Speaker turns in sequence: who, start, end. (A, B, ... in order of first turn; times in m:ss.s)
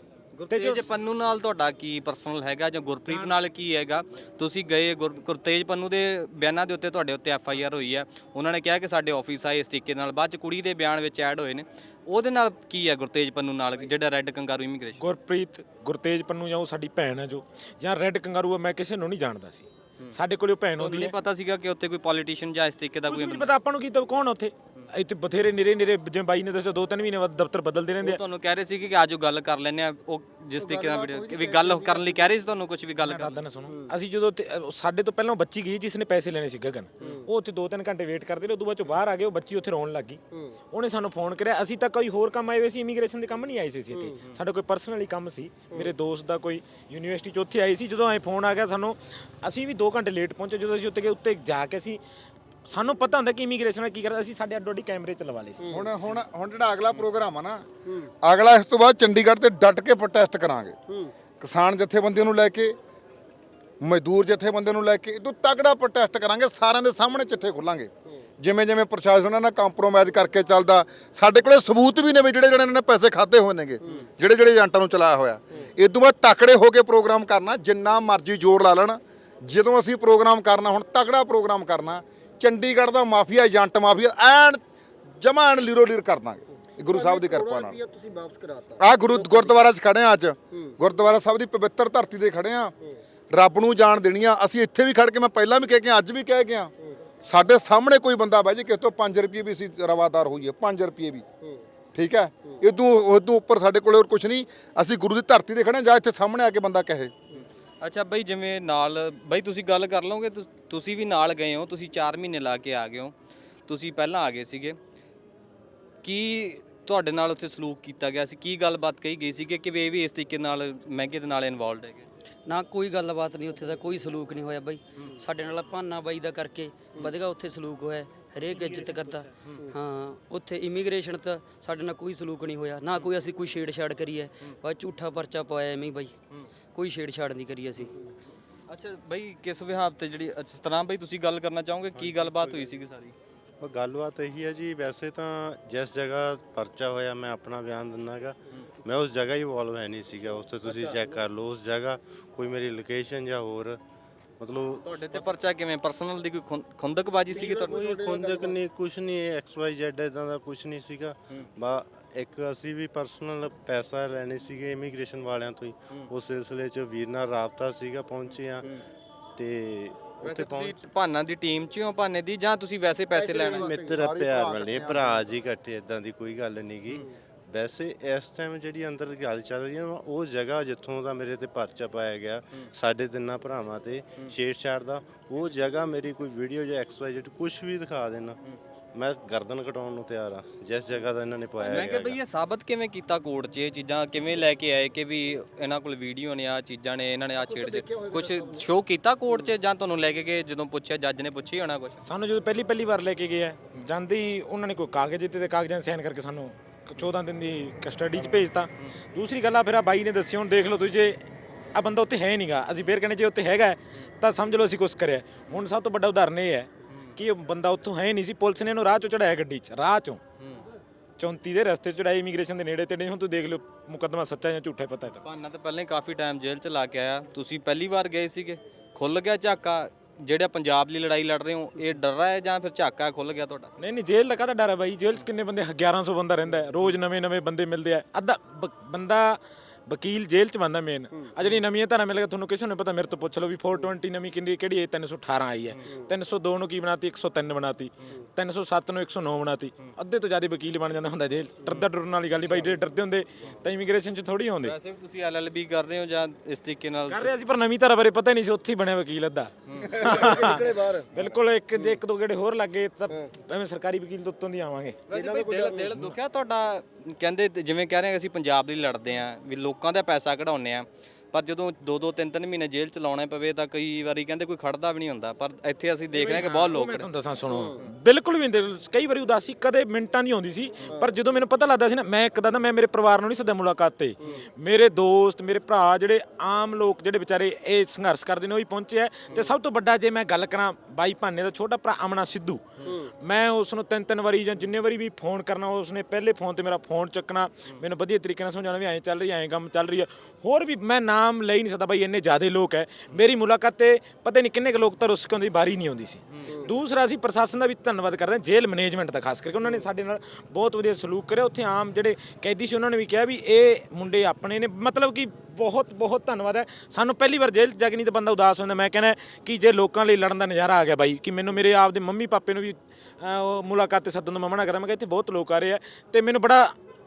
0:00.4-0:15.0 A
0:00.5-0:00.9 B
0:15.0-0:21.1 B
0:20.8-0:23.5 A
0:23.1-0:28.2 B
0:28.0-0:33.4 A
0:30.6-0:32.3 C
0:33.0-0:40.2 B
0:33.7-0:33.9 C
0:37.0-0:37.3 C
0:40.3-0:40.6 C
0:40.7-0:52.0 B
0:43.9-0:44.3 C
0:52.6-0:55.6 B
0:55.6-0:55.9 C
0:55.7-0:57.7 D
0:57.8-0:58.1 C
0:58.2-1:00.8 D
1:00.9-1:01.1 C
1:01.4-1:02.8 D
1:03.8-1:07.9 D
1:08.4-1:24.6 D
1:25.2-1:27.8 D
1:26.8-1:29.6 C
1:28.8-1:32.7 D
1:33.3-1:36.7 D
1:37.2-1:41.2 D
1:42.0-1:47.1 D
1:47.8-1:53.1 A
1:53.7-1:54.8 A
1:56.0-2:02.1 A
2:02.5-2:16.1 E
2:08.6-2:08.9 B
2:16.7-2:17.9 E
2:18.7-2:23.1 A
2:21.9-2:22.8 F
2:23.6-2:33.8 F
2:30.6-2:31.2 C
2:34.4-2:35.2 F
2:34.8-2:37.8 A
2:37.3-2:38.6 C
2:37.4-2:48.8 F
2:49.4-2:50.8 F
2:50.2-2:53.7 A
2:53.1-2:54.0 C
2:53.4-3:08.4 F
2:53.9-2:55.3 D
3:08.9-3:12.2 F
3:11.6-3:22.0 A
3:17.5-3:18.7 C
3:22.0-3:40.2 B
3:36.9-3:37.1 A
3:40.4-3:40.6 A
3:41.2-3:45.2 B
3:45.2-3:53.7 A
3:53.8-4:14.7 B
4:14.6-4:17.3 A
4:17.1-4:25.1 B
4:19.7-4:20.2 A
4:19.8-4:21.4 C
4:25.1-4:37.1 A
4:25.1-4:25.9 C
4:25.9-4:26.2 B
4:36.1-5:26.8 B
4:37.5-4:37.8 C
4:44.2-4:44.5 C
4:52.9-4:53.1 C